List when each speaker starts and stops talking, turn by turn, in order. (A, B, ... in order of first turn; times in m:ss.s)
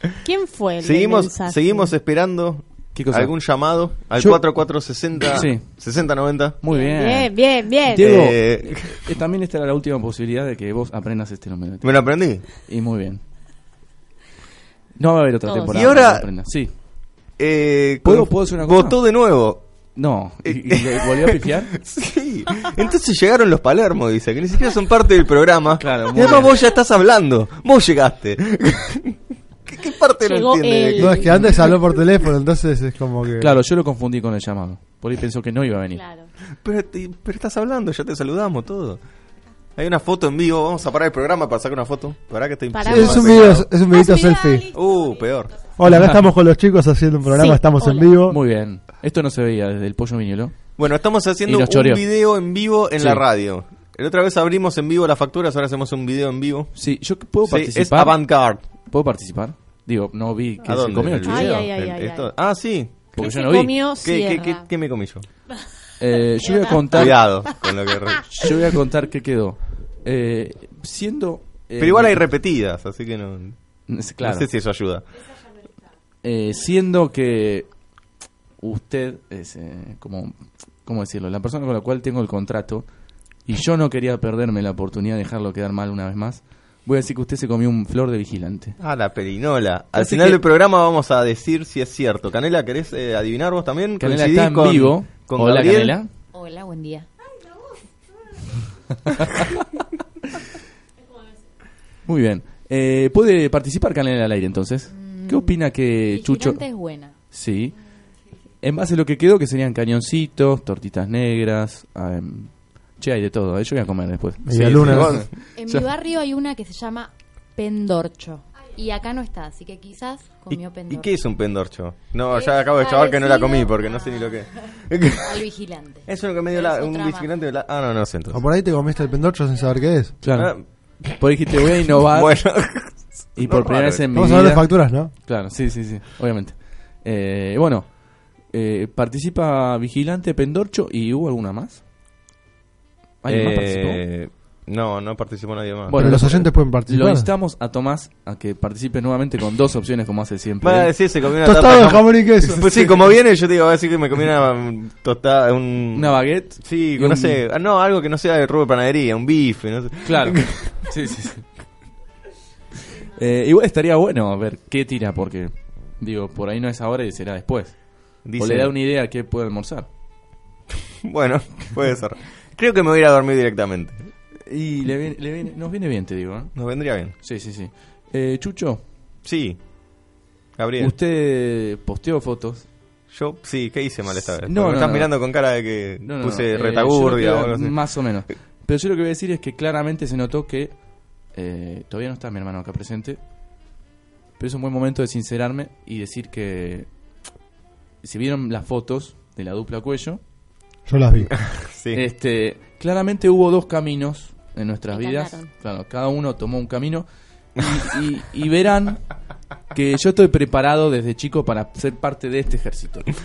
0:00.2-0:01.9 A
0:00.8-0:06.6 B
0:02.9-0:03.3 C
0:04.2-0:04.4 C
0:05.3-0:05.7 C
0:06.6-0:07.3 C
0:06.7-0:08.1 A
0:07.8-0:13.2 C
0:07.9-0:09.1 B
0:11.8-0:12.4 B
0:15.0-0:16.7 C
0:15.4-0:16.0 A
0:15.7-0:16.3 B
0:17.4-0:19.7 B
0:18.0-0:19.0 C
0:19.9-0:21.7 C
0:20.4-0:31.6 B
0:25.8-0:26.5 C
0:30.2-0:31.3 A
0:31.0-0:33.5 D
0:33.4-0:36.0 C
0:35.9-0:36.3 A
0:36.6-0:39.0 B
0:39.8-0:43.8 B
0:42.7-0:45.4 A
0:42.8-0:44.7 D
0:44.7-0:45.6 B
0:45.8-0:48.4 D
0:45.8-0:46.3 C
0:47.3-0:48.2 A
0:48.3-0:50.6 C
0:50.8-0:56.7 B
0:51.4-0:52.0 C
0:53.0-0:53.2 C
0:56.7-1:01.7 C
0:57.4-0:58.6 B
1:00.6-1:03.3 B
1:01.2-1:02.3 A
1:03.1-1:04.7 A
1:03.2-1:03.7 C
1:04.0-1:05.2 B
1:06.0-1:07.2 C
1:06.4-1:08.5 A
1:06.9-1:08.2 B
1:08.2-1:12.2 C
1:11.8-1:13.6 B
1:13.9-1:14.5 C
1:14.2-1:15.0 B
1:16.2-1:17.7 C
1:18.6-1:22.9 C
1:23.4-1:28.8 C
1:28.8-1:36.0 B
1:29.9-1:30.4 C
1:34.0-1:36.1 C
1:36.3-1:37.1 E
1:39.0-1:39.6 C
1:42.0-1:46.6 C
1:44.9-1:47.1 E
1:47.3-1:47.7 C
1:48.6-1:55.2 C
1:54.4-1:55.2 D
1:54.5-1:55.9 B
1:55.5-2:01.1 E
2:00.5-2:05.4 B
2:02.3-2:04.4 E
2:05.2-2:07.3 E
2:06.0-2:08.4 B
2:08.3-2:10.1 D
2:10.2-2:10.5 C
2:10.3-2:10.6 B
2:11.1-2:12.4 C
2:12.0-2:14.1 B
2:13.3-2:21.8 C
2:14.1-2:15.1 D
2:23.2-2:24.0 C
2:23.3-2:26.0 B
2:25.9-2:30.9 C
2:25.9-2:27.3 D
2:30.6-2:40.8 B
2:31.4-2:32.8 D
2:35.9-2:37.4 C
2:40.0-2:41.4 C
2:42.9-2:49.9 C
2:48.2-2:48.7 B
2:51.0-2:54.0 B
2:54.4-2:56.5 C
2:56.5-2:57.1 B
2:57.2-2:58.8 C
2:59.2-2:59.6 B
3:00.6-3:00.9 B
3:00.8-3:02.7 C
3:03.1-3:07.7 B
3:04.2-3:05.1 C
3:06.0-3:10.8 C
3:11.3-3:13.2 C
3:14.4-3:16.9 C
3:18.0-3:20.2 C
3:20.8-3:21.3 D
3:21.3-3:22.0 B
3:21.9-3:29.1 C
3:24.9-3:25.5 A
3:29.7-3:33.1 C